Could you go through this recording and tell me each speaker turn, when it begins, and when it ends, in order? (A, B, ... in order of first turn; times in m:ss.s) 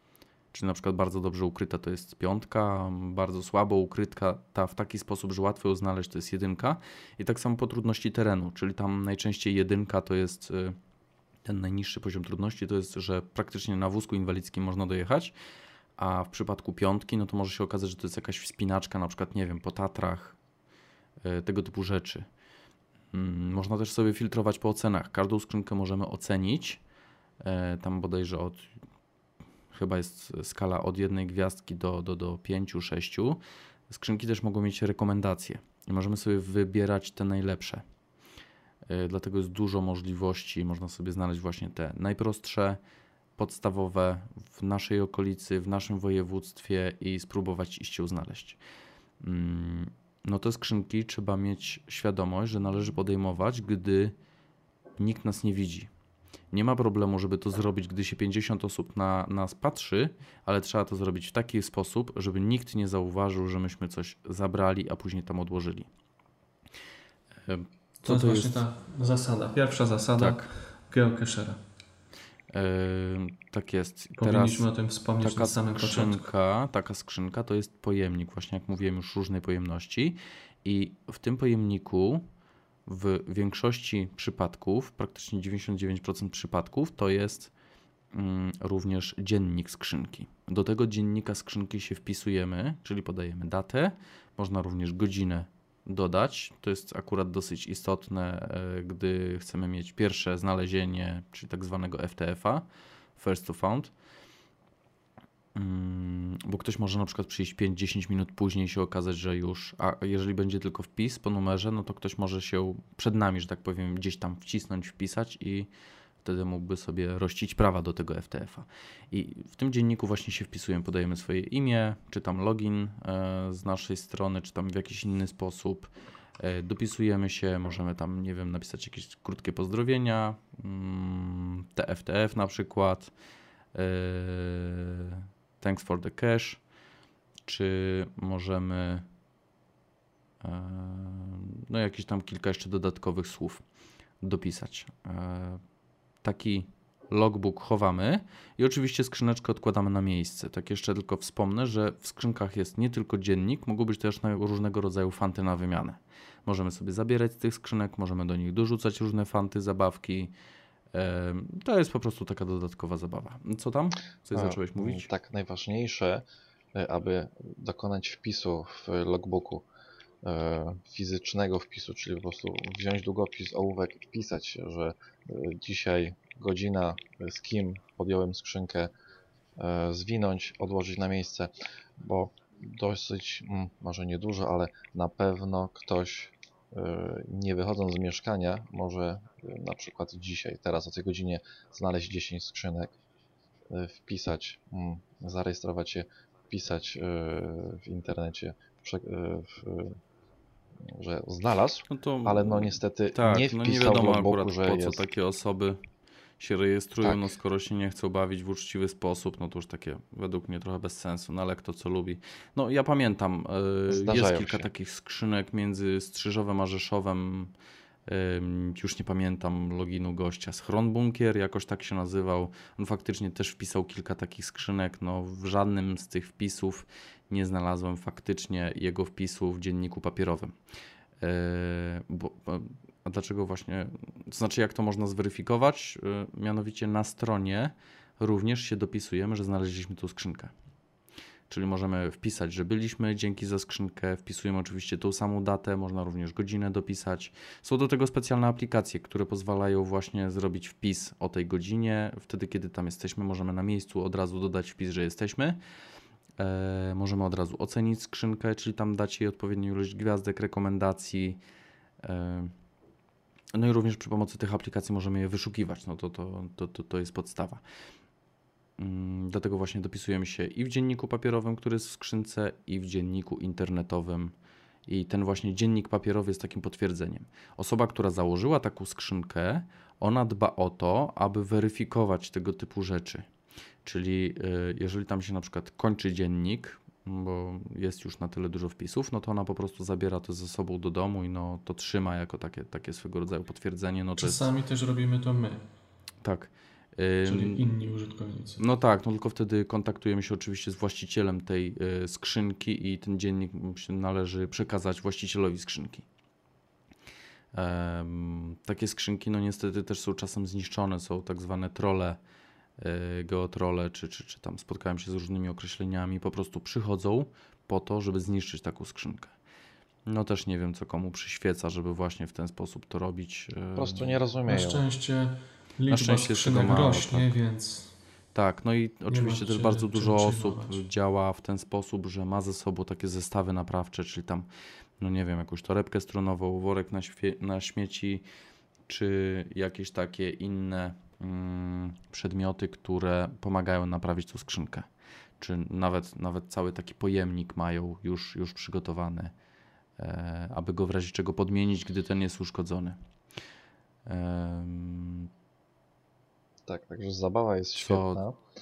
0:00.5-0:10.8 A
0:11.4-0:15.3 A
0:16.0-0:20.4 A
0:21.2-0:22.3 A
0:23.1-0:26.8 A
0:27.4-0:28.7 A
0:29.7-0:37.8 A
0:38.9-0:42.8 A
0:43.4-0:48.6 A
0:49.2-0:54.1 A
0:55.0-0:55.9 A
0:56.5-1:05.9 A
1:07.4-1:08.6 A
1:08.0-1:11.6 B
1:10.2-1:10.5 A
1:12.5-1:14.7 A
1:14.2-1:16.3 B
1:15.2-1:22.2 A
1:22.8-1:27.5 A
1:28.1-1:43.9 A
1:45.5-1:55.7 A
1:56.2-2:13.1 A
2:13.7-2:16.6 A
2:17.4-2:19.0 A
2:20.4-2:23.6 A
2:24.2-2:25.6 A
2:26.2-2:40.3 A
2:40.9-2:45.1 A
2:44.3-2:49.6 C
2:50.2-2:58.9 C
2:59.6-3:12.9 C
3:13.7-3:20.0 C
3:20.8-3:25.0 C
3:21.9-3:25.8 A
3:26.4-3:37.5 A
3:27.0-3:27.3 C
3:33.9-3:34.7 C
3:38.1-3:50.5 A
3:51.2-4:00.5 A
4:01.5-4:15.6 A
4:16.4-4:21.4 A
4:22.0-4:22.5 A
4:23.5-4:27.6 A
4:28.8-4:34.3 A
4:34.9-4:43.3 A
4:43.8-4:54.5 A
4:54.2-4:55.6 B
4:56.2-4:57.6 A
4:57.2-4:58.6 B
4:58.6-5:06.0 A
5:07.5-5:12.2 A
5:12.8-5:19.3 A
5:20.1-5:24.2 A
5:23.8-5:24.8 C
5:24.4-5:28.0 B
5:25.9-5:27.3 A
5:28.3-5:34.5 A
5:29.1-5:30.8 B
5:35.0-5:38.2 A
5:38.9-5:44.9 A
5:45.4-5:49.3 A
5:50.0-5:53.0 A
5:54.0-5:55.3 A
5:56.6-5:58.4 C
5:57.7-5:58.2 A